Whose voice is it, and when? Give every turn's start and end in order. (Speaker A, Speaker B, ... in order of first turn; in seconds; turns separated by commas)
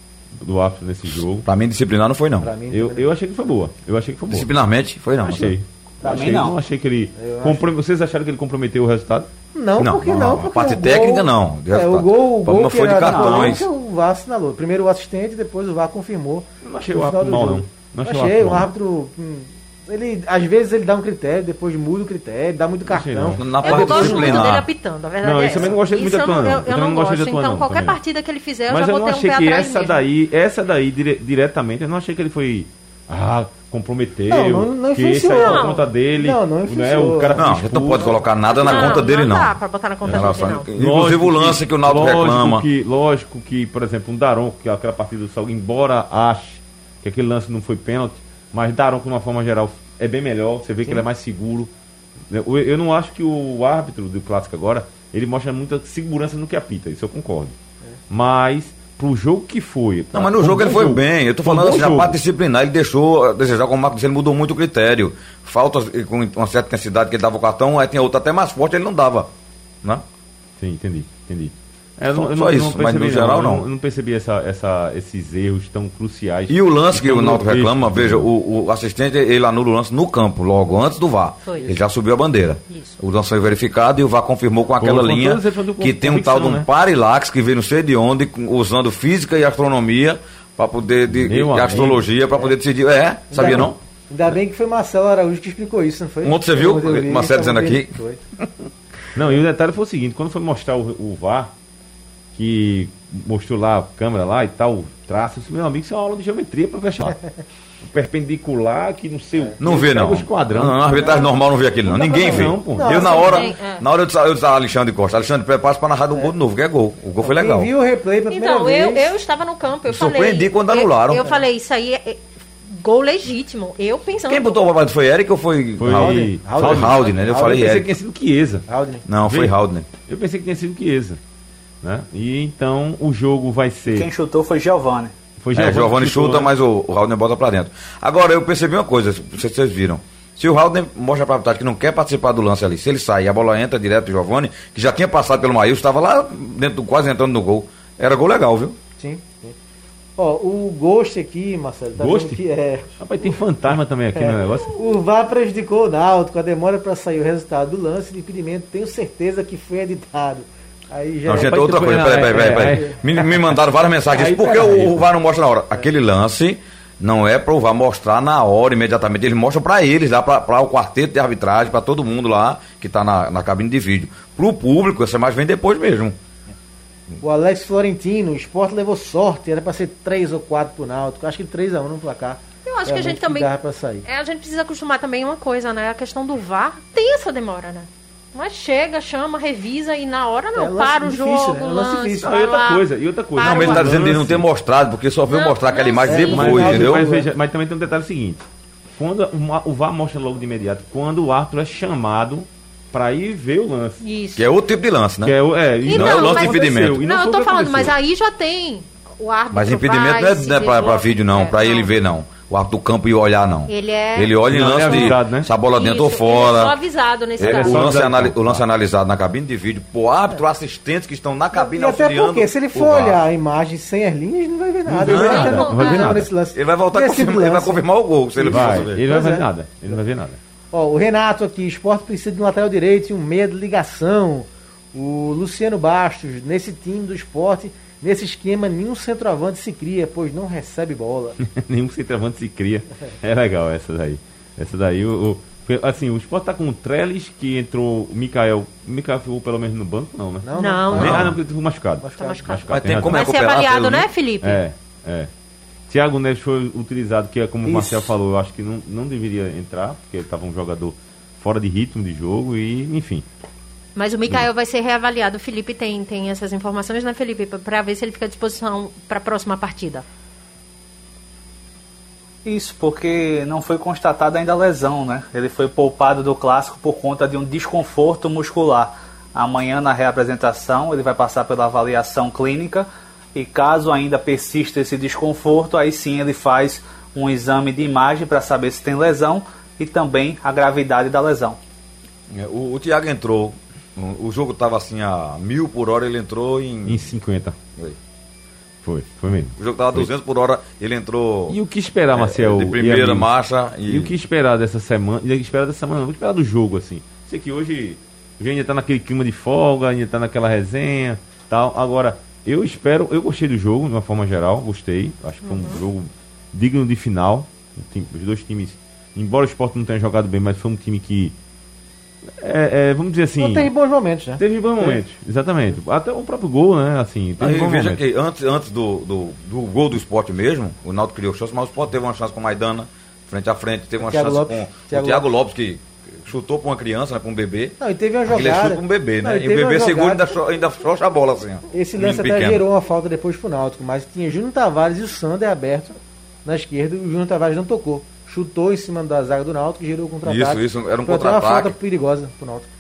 Speaker A: 0.4-1.5, Speaker B: 1.4-2.5, Speaker C: 2.4-3.1, Speaker A: 2.7-4.5, Speaker B: 4.3-5.6, Speaker A: 5.2-9.3, Speaker D: 6.0-6.6, Speaker C: 7.2-7.7, Speaker C: 9.5-24.5, Speaker B: 9.8-13.7, Speaker D: 13.1-13.6, Speaker A: 16.6-18.7, Speaker A: 22.9-23.5, Speaker B: 23.4-24.7, Speaker E: 23.6-30.0, Speaker A: 25.2-28.0, Speaker A: 28.7-38.2, Speaker C: 34.3-38.2, Speaker E: 35.3-35.9, Speaker B: 37.4-42.7, Speaker E: 38.5-40.7, Speaker A: 40.0-51.7, Speaker A: 52.3-57.6, Speaker A: 58.1-62.2, Speaker B: 60.1-69.3, Speaker A: 70.6-78.3, Speaker B: 72.1-73.7, Speaker B: 76.5-93.8, Speaker E: 81.5-81.7, Speaker E: 82.7-83.0, Speaker A: 84.8-86.7, Speaker A: 91.1-92.1, Speaker C: 93.3-98.2, Speaker A: 93.4-93.7, Speaker B: 96.2-98.0, Speaker A: 99.1-101.5, Speaker A: 102.3-107.2, Speaker A: 107.8-111.1, Speaker B: 109.6-117.7, Speaker C: 111.0-111.3, Speaker C: 111.9-113.5, Speaker A: 111.9-113.1, Speaker E: 112.9-113.8, Speaker C: 117.2-119.1, Speaker E: 118.3-124.6, Speaker B: 119.9-121.3, Speaker B: 124.3-127.9, Speaker A: 125.8-128.7, Speaker C: 125.9-127.7, Speaker C: 128.7-129.1, Speaker B: 129.1-129.9, Speaker A: 129.2-131.2, Speaker A: 131.8-134.1, Speaker D: 133.9-135.1, Speaker A: 135.4-136.5, Speaker B: 135.5-148.8, Speaker C: 149.0-149.6, Speaker C: 150.2-152.9, Speaker A: 152.0-152.4, Speaker A: 153.0-154.8, Speaker C: 154.2-162.9, Speaker B: 161.3-176.2, Speaker A: 161.3-163.3, Speaker A: 164.1-165.1, Speaker C: 177.2-184.1, Speaker E: 182.7-183.5, Speaker E: 184.1-193.9, Speaker C: 190.6-192.4, Speaker A: 192.2-194.5, Speaker B: 193.4-197.1, Speaker E: 195.3-196.6, Speaker C: 196.1-197.3, Speaker A: 196.3-198.4, Speaker A: 199.0-204.0, Speaker E: 204.0-204.5, Speaker B: 204.3-207.0, Speaker A: 205.2-207.9, Speaker E: 205.8-211.9, Speaker B: 209.5-216.8, Speaker E: 213.7-215.2, Speaker A: 214.5-215.5, Speaker E: 215.7-217.9, Speaker A: 217.4-218.7, Speaker B: 217.4-223.2, Speaker C: 221.5-227.8, Speaker A: 224.9-226.3, Speaker B: 225.0-225.7, Speaker E: 225.1-226.2, Speaker B: 226.5-229.0, Speaker C: 228.4-230.0, Speaker A: 228.5-230.4, Speaker C: 230.7-241.4, Speaker A: 241.4-253.3, Speaker C: 250.4-251.4, Speaker E: 250.6-251.2, Speaker B: 250.9-251.3, Speaker C: 252.0-252.6, Speaker E: 252.2-254.6, Speaker B: 252.7-254.1, Speaker A: 254.4-255.3, Speaker A: 255.9-263.2, Speaker D: 257.7-258.0, Speaker E: 264.0-270.0, Speaker D: 272.4-291.6, Speaker B: 292.3-297.1, Speaker A: 296.9-297.6, Speaker A: 298.8-300.1, Speaker B: 299.6-301.6, Speaker A: 301.5-303.3, Speaker B: 302.1-304.1, Speaker A: 303.9-321.4, Speaker E: 315.4-315.8, Speaker A: 322.4-323.7, Speaker C: 323.4-325.0, Speaker A: 324.4-328.0, Speaker B: 327.4-342.6, Speaker C: 334.0-335.3, Speaker C: 337.8-340.3, Speaker C: 341.7-352.7, Speaker B: 350.2-351.8